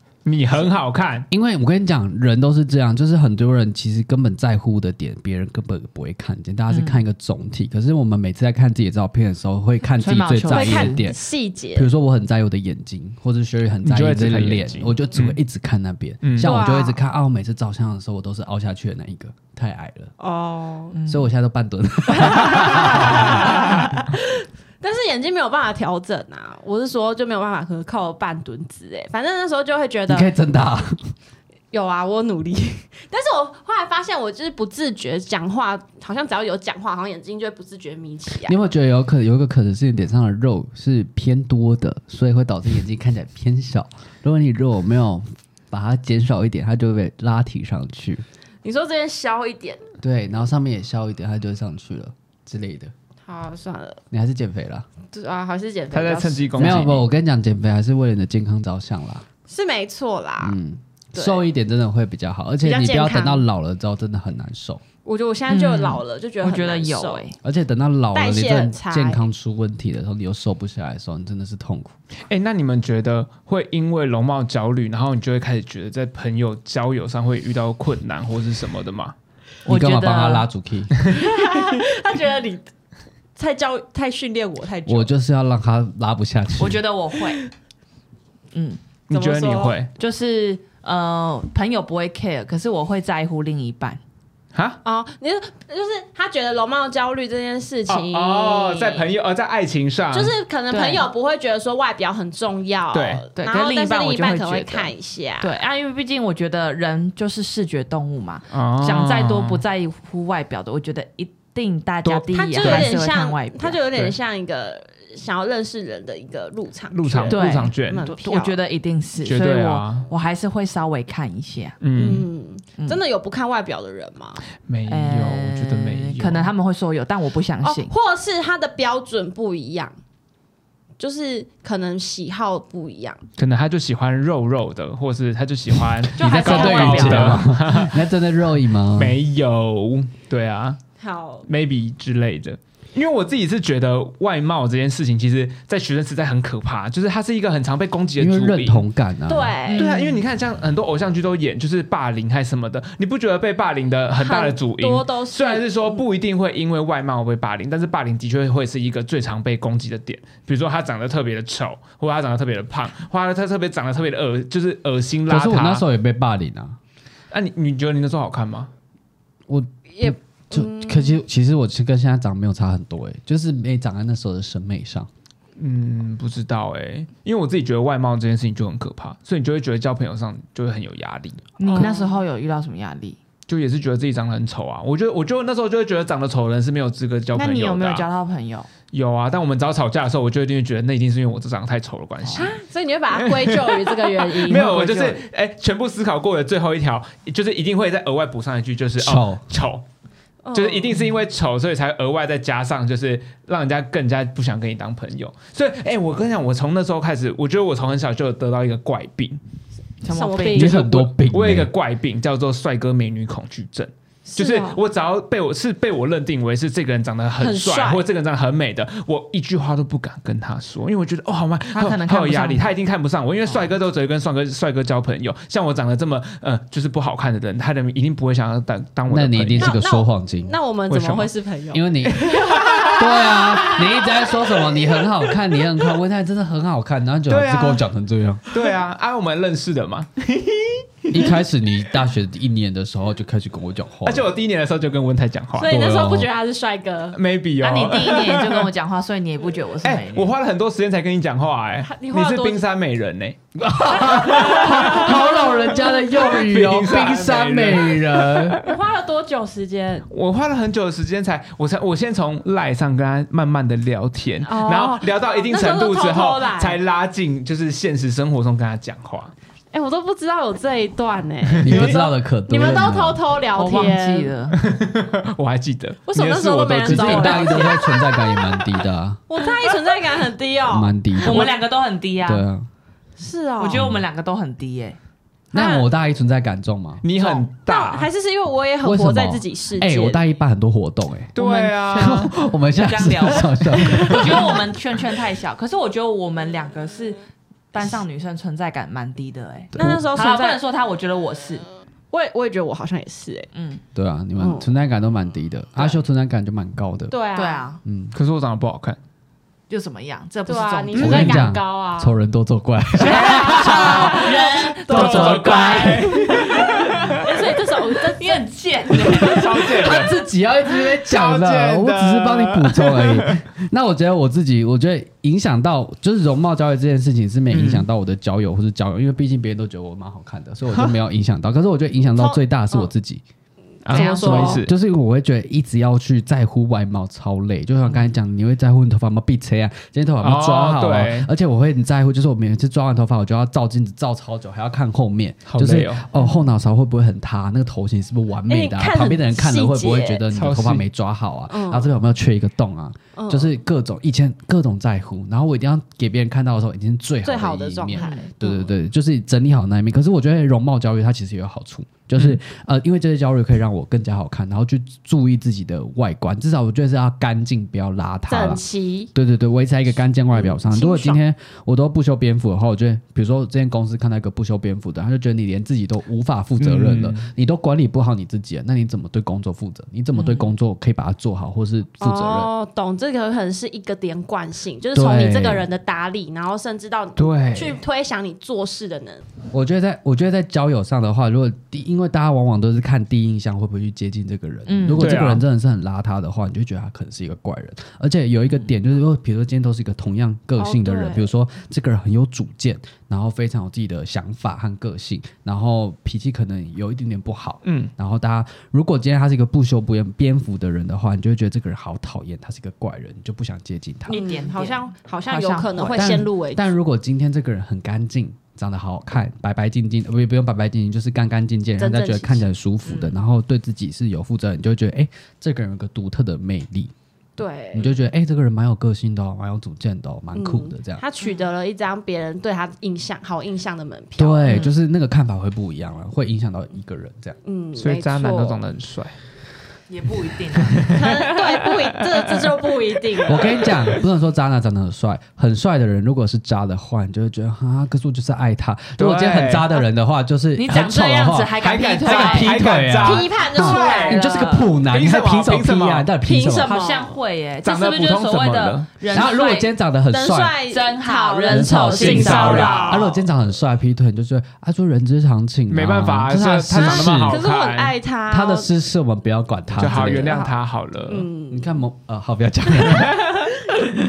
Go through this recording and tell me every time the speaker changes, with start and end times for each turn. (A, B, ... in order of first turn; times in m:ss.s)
0:00.2-0:01.3 A
0:01.3-0:11.2 B
0:06.7-0:07.0 C
0:10.0-0:11.1 C
0:10.5-0:11.9 D
0:11.7-0:20.1 B
0:13.8-0:15.4 A
0:16.2-0:16.6 A
0:16.4-0:17.0 D
0:20.2-0:21.0 D
0:20.9-0:21.3 C
0:21.1-0:23.7 B
0:22.1-0:30.3 D
0:23.1-0:23.8 A
0:30.1-0:31.0 B
0:31.7-0:38.6 D
0:38.4-0:48.2 B
0:48.6-0:49.8 D
0:50.0-0:52.9 B
0:53.2-0:54.0 D
0:54.1-0:54.9 B
0:55.1-0:57.0 D
0:55.9-0:57.0 A
0:56.6-0:59.2 B
0:59.5-1:00.6 D
1:00.4-1:04.8 B
1:01.1-1:01.4 D
1:02.6-1:03.4 D
1:05.0-1:07.3 D
1:05.5-1:07.4 C
1:07.4-1:12.0 B
1:08.1-1:09.2 D
1:12.3-1:19.1 A
1:19.6-1:20.5 C
1:19.6-1:21.0 B
1:21.1-1:22.6 D
1:23.4-1:25.1 D
1:24.9-1:26.8 B
1:26.6-1:27.4 C
1:28.5-1:28.8 C
1:29.1-1:29.9 A
1:29.1-1:29.8 D
1:30.0-1:34.0 C
1:34.5-1:34.8 A
1:34.8-1:39.1 D
1:37.9-1:40.3 A
1:40.1-1:45.6 D
1:40.7-1:41.1 C
1:42.9-1:43.2 A
1:43.4-1:53.8 C
1:48.5-1:49.6 A
1:52.0-1:53.0 A
1:52.3-1:58.6 D
1:56.9-1:58.1 A
1:57.3-2:01.8 C
1:59.2-2:00.1 A
2:01.8-2:02.3 A
2:02.0-2:04.4 D
2:04.6-2:06.5 A
2:04.9-2:07.9 C
2:07.6-2:10.0 D
2:11.0-2:13.2 D
2:13.4-2:18.0 A
2:16.2-2:17.5 C
2:16.2-2:17.4 D
2:16.2-2:19.2 B
2:18.9-2:20.8 A
2:21.0-2:21.5 D
2:21.5-2:28.8 A
2:28.2-2:29.6 B
2:29.3-2:29.9 D
2:29.6-2:30.2 C
2:29.8-2:45.8 A
2:34.2-2:36.0 D
2:45.3-2:46.8 B
2:47.3-2:48.7 A
2:49.5-2:55.1 B
2:50.0-2:51.2 D
2:55.6-3:01.9 A
3:01.6-3:03.2 C
3:01.7-3:02.1 D
3:03.5-3:08.1 A
3:07.4-3:08.7 C
3:08.9-3:12.6 A
3:12.2-3:12.5 C
3:12.3-3:15.0 D
3:13.1-3:19.8 A
3:14.6-3:15.2 C
3:19.0-3:19.4 B
3:20.4-3:21.1 D
3:20.5-3:29.4 A
3:30.0-3:30.7 C
3:30.1-3:30.8 D
3:30.5-3:31.7 B
3:30.6-3:49.7 A
3:34.3-3:34.8 D
3:37.4-3:38.0 D
3:41.7-3:42.7 C
3:49.1-3:50.6 B
3:49.6-3:55.0 D
3:50.9-3:51.3 A
3:51.7-3:52.2 B
3:52.2-3:53.1 A
3:53.0-3:58.5 B
3:57.3-3:57.8 A
3:58.5-4:01.4 A
4:01.1-4:04.3 B
4:04.0-4:05.8 A
4:05.6-4:07.2 D
4:05.6-4:06.3 B
4:07.1-4:08.7 A
4:07.6-4:10.3 C
4:09.8-4:13.4 A
4:11.8-4:12.6 D
4:13.6-4:18.6 B
4:13.9-4:16.0 D
4:14.2-4:15.3 A
4:16.2-4:18.7 A
4:18.6-4:20.1 D
4:20.1-4:29.3 A
4:24.4-4:26.8 D
4:29.7-4:34.3 D
4:31.4-4:32.0 A
4:31.6-4:33.2 B
4:33.6-4:34.6 C
4:34.5-4:37.8 A
4:36.1-4:38.7 D
4:36.8-4:39.2 B
4:39.3-4:41.6 D
4:40.7-4:41.5 B
4:41.2-4:42.4 C
4:42.2-4:42.7 B
4:43.2-4:43.9 D
4:43.6-4:45.0 C
4:45.5-4:47.0 B
4:45.5-4:45.9 D
4:47.0-4:48.1 A
4:47.2-4:50.2 D
4:48.8-4:54.7 B
4:51.4-4:52.3 A
4:52.0-4:57.2 C
4:54.0-4:54.4 D
4:57.7-5:01.6 C
4:59.8-5:00.1 B
4:59.8-5:00.6 D
5:02.1-5:03.5 D
5:03.5-5:03.8 C
5:04.0-5:07.1 B
5:04.4-5:04.7 D
5:07.1-5:07.7 D
5:07.4-5:07.8 C
5:07.8-5:08.1 B
5:08.1-5:09.0 A
5:09.7-5:11.5 C
5:10.5-5:12.1 D
5:10.9-5:16.5 B
5:13.0-5:16.0 D
5:13.0-5:14.2 A
5:13.1-5:17.2 C
5:14.9-5:17.2 A
5:17.1-5:18.4 D
5:17.8-5:20.0 C
5:19.0-5:19.4 D
5:19.1-5:20.2 A
5:19.7-5:33.2 B
5:20.9-5:23.4 A
5:27.5-5:27.9 A
5:30.7-5:31.0 A
5:32.1-5:32.9 D
5:33.8-5:34.7 A
5:33.9-5:34.6 D
5:33.9-6:08.6 B
5:40.2-5:41.3 A
5:45.5-5:46.0 A
5:48.5-5:50.2 D
5:50.3-5:50.8 A
5:51.5-5:51.9 D
5:53.2-5:53.6 D
5:57.2-5:58.7 D
5:57.9-5:58.3 C
6:08.3-6:09.1 D
6:09.1-6:22.5 B
6:10.3-6:11.2 D
6:16.6-6:17.3 A
6:20.1-6:20.4 C
6:22.0-6:29.3 D
6:24.9-6:25.7 B
6:27.2-6:27.8 A
6:29.5-6:54.2 B
6:34.6-6:35.2 C
6:35.0-6:35.4 A
6:40.6-6:41.3 D
6:47.6-6:47.9 A
6:54.1-6:56.2 C
6:54.1-6:56.7 D
6:55.9-7:06.9 B
7:01.8-7:02.5 D
7:02.9-7:03.1 C
7:07.4-7:08.0 D
7:07.7-7:11.0 B
7:10.4-7:14.7 D
7:14.2-7:17.4 B
7:17.4-7:18.6 D
7:17.8-7:19.2 A
7:19.9-7:21.0 C
7:20.6-7:22.6 A
7:20.9-7:23.8 D
7:23.1-7:24.0 A
7:23.3-7:36.8 B
7:29.0-7:29.7 A
7:30.5-7:32.8 C
7:31.6-7:34.0 A
7:33.0-7:34.5 D
7:33.4-7:34.8 C
7:34.8-7:36.1 A
7:36.2-7:37.2 D
7:36.6-7:39.7 C
7:37.6-7:38.9 A
7:39.1-7:40.6 B
7:39.1-7:43.1 D
7:40.7-7:42.9 C
7:41.5-7:47.4 B
7:42.0-7:43.1 A
7:45.7-7:48.0 A
7:46.7-7:48.7 D
7:48.3-7:50.5 B
7:49.8-7:51.3 A
7:49.8-7:50.5 D
7:51.1-7:51.8 D
7:51.5-7:53.6 B
7:52.9-7:53.5 D